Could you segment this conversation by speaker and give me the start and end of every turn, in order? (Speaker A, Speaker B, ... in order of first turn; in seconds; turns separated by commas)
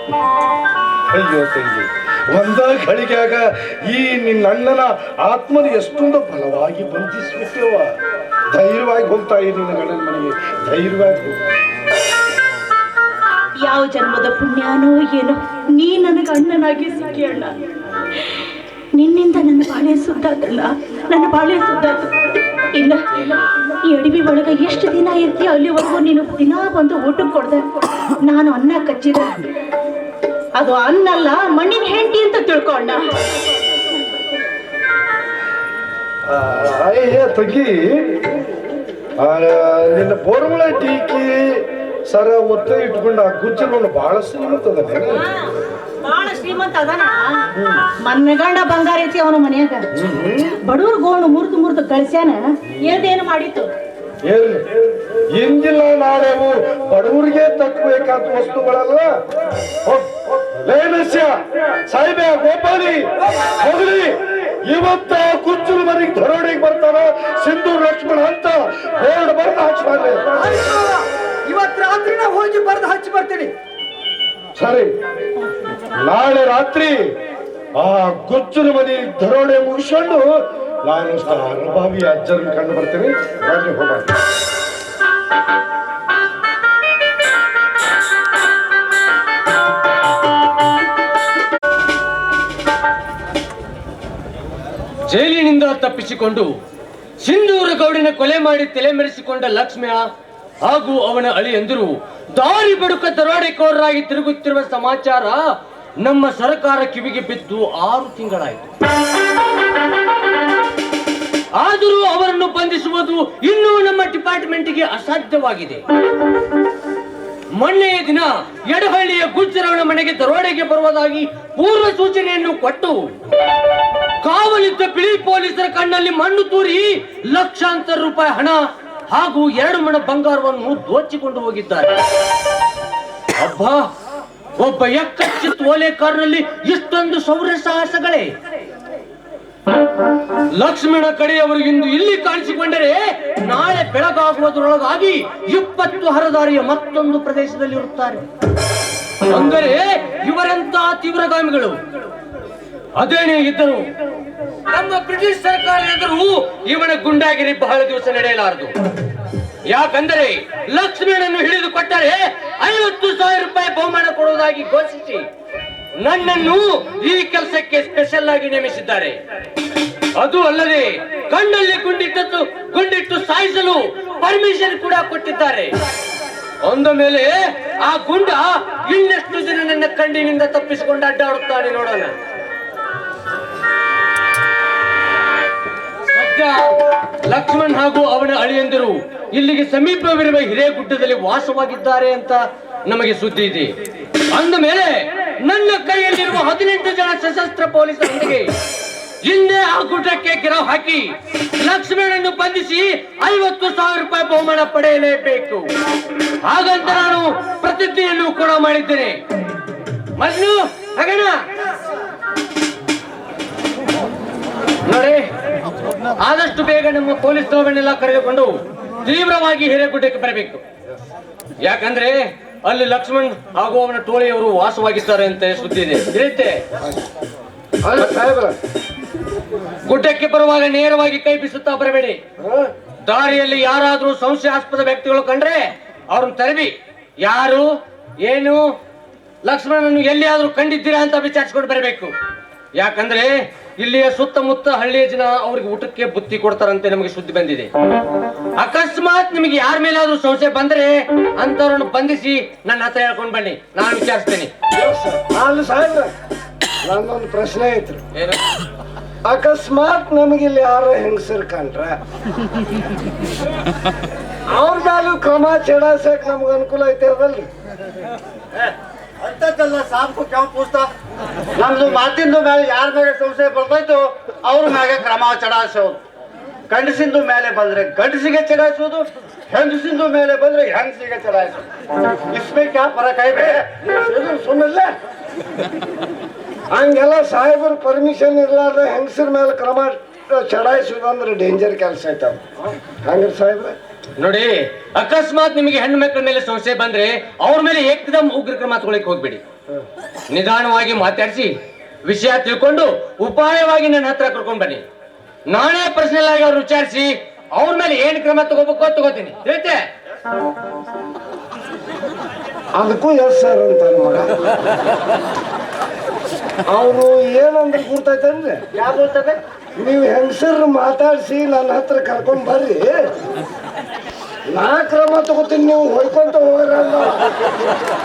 Speaker A: 1.1-7.9, Speaker A: 8.5-11.4, Speaker B: 13.6-17.6, Speaker B: 19.0-22.1, Speaker B: 22.7-27.7, Speaker B: 28.2-29.4, Speaker B: 30.6-33.0, Speaker A: 36.3-37.8, Speaker A: 39.2-45.2, Speaker B: 46.0-47.3, Speaker B: 48.0-49.9, Speaker A: 50.0-50.5, Speaker B: 50.6-53.7, Speaker A: 54.3-54.7, Speaker A: 55.4-59.1, Speaker A: 59.9-61.4, Speaker A: 61.9-63.0, Speaker A: 63.6-64.2, Speaker A: 64.7-70.3, Speaker C: 70.7-73.5, Speaker A: 74.6-74.9, Speaker A: 76.1-76.9, Speaker A: 77.8-80.2, Speaker A: 80.9-84.1, Speaker D: 95.1-96.5, Speaker D: 97.2-100.0, Speaker D: 100.7-105.4, Speaker D: 106.0-108.7, Speaker D: 111.6-115.8, Speaker D: 117.6-123.0, Speaker D: 124.2-131.9, Speaker D: 133.4-133.8, Speaker D: 134.6-138.3, Speaker D: 140.6-148.2, Speaker D: 149.3-151.8, Speaker D: 153.0-153.9, Speaker D: 154.7-158.7, Speaker D: 159.7-165.2, Speaker D: 166.0-169.2, Speaker D: 170.2-175.7, Speaker D: 176.7-182.1, Speaker D: 186.1-186.6, Speaker D: 187.3-193.7, Speaker D: 194.3-194.9, Speaker D: 195.4-198.5, Speaker D: 199.3-201.1, Speaker D: 201.6-205.6, Speaker D: 206.5-209.2, Speaker D: 210.2-211.3, Speaker D: 214.9-215.2, Speaker D: 216.2-218.5, Speaker D: 219.0-220.6, Speaker D: 221.7-226.6, Speaker E: 227.8-228.6, Speaker D: 229.8-232.2, Speaker E: 232.4-232.7, Speaker D: 233.1-237.7, Speaker D: 238.2-238.6, Speaker D: 239.4-242.1, Speaker D: 242.8-247.7, Speaker D: 248.6-254.5, Speaker E: 254.7-256.1, Speaker E: 256.8-258.0, Speaker E: 259.3-262.0, Speaker E: 264.5-267.5, Speaker F: 269.2-270.9, Speaker F: 271.6-276.0, Speaker F: 276.7-281.6, Speaker F: 282.3-283.7, Speaker E: 283.4-284.9, Speaker E: 286.7-292.4, Speaker E: 293.0-293.8, Speaker D: 294.2-299.4, Speaker D: 300.3-301.5, Speaker D: 302.1-304.8, Speaker D: 305.5-309.8, Speaker E: 312.8-314.3, Speaker E: 316.7-318.6, Speaker F: 318.8-319.4, Speaker E: 319.8-323.0, Speaker E: 324.5-327.5